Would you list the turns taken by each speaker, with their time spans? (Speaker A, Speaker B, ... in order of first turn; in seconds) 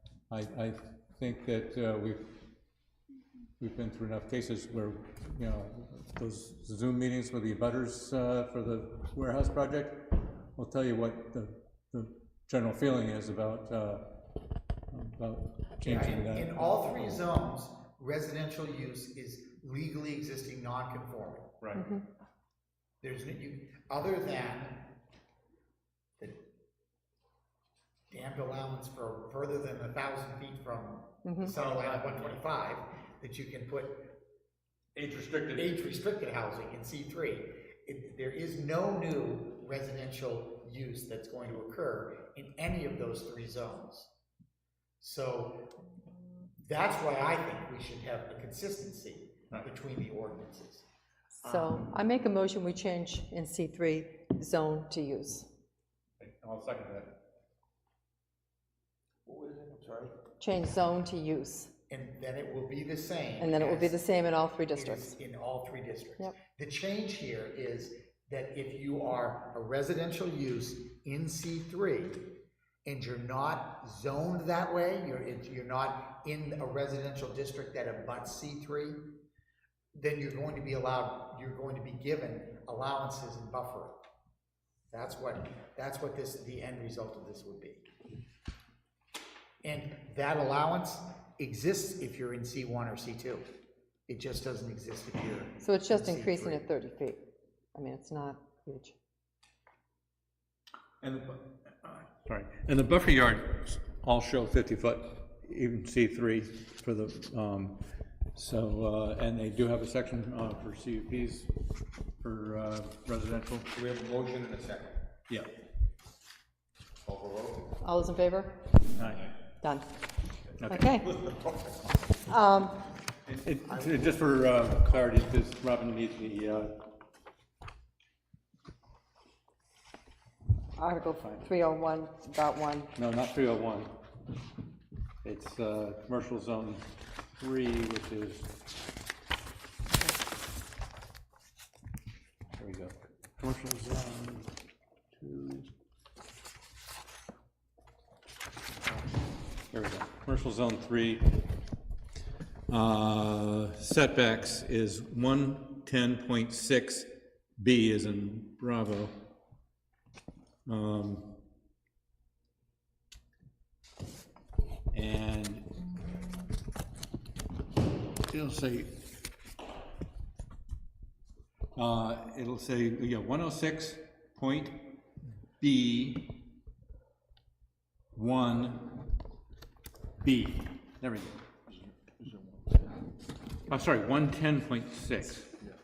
Speaker A: 0.3-2.3, 3.6-14.2, 14.9-17.2, 31.4-32.4, 34.9-35.7, 56.2-57.2, 96.0-96.6, 101.0-107.8, 108.3-111.5, 112.2-113.7, 118.9-119.3, 120.6-121.1, 123.2-126.7, 131.2-131.5, 132.9-133.9, 135.2-138.6, 142.6-144.5, 145.2-145.7, 149.7-151.4, 152.7-159.3, 160.7-161.4, 164.9-165.7, 168.3-169.0, 171.8-174.9, 175.6-176.4, 178.1-178.9, 180.2-181.4, 183.7-185.6
Speaker B: 15.8-21.6, 23.0-25.0, 28.1-34.1, 35.5-44.1, 45.0-45.8, 46.6-50.9, 51.4-51.8, 61.9-64.0, 64.7-79.1, 79.9-84.0, 84.9-87.9, 89.6-93.5, 94.1-95.9, 123.8-124.0
Speaker C: 21.7-22.1, 31.2-31.5, 51.4-55.5, 60.4-61.7, 63.4-65.1, 95.6-97.2, 97.7-98.9, 117.8-118.9, 119.6-120.0, 120.7-121.1, 122.2-122.8, 130.8-132.9
Speaker D: 59.3-60.1, 113.7-114.9, 117.0-117.7, 182.2-182.8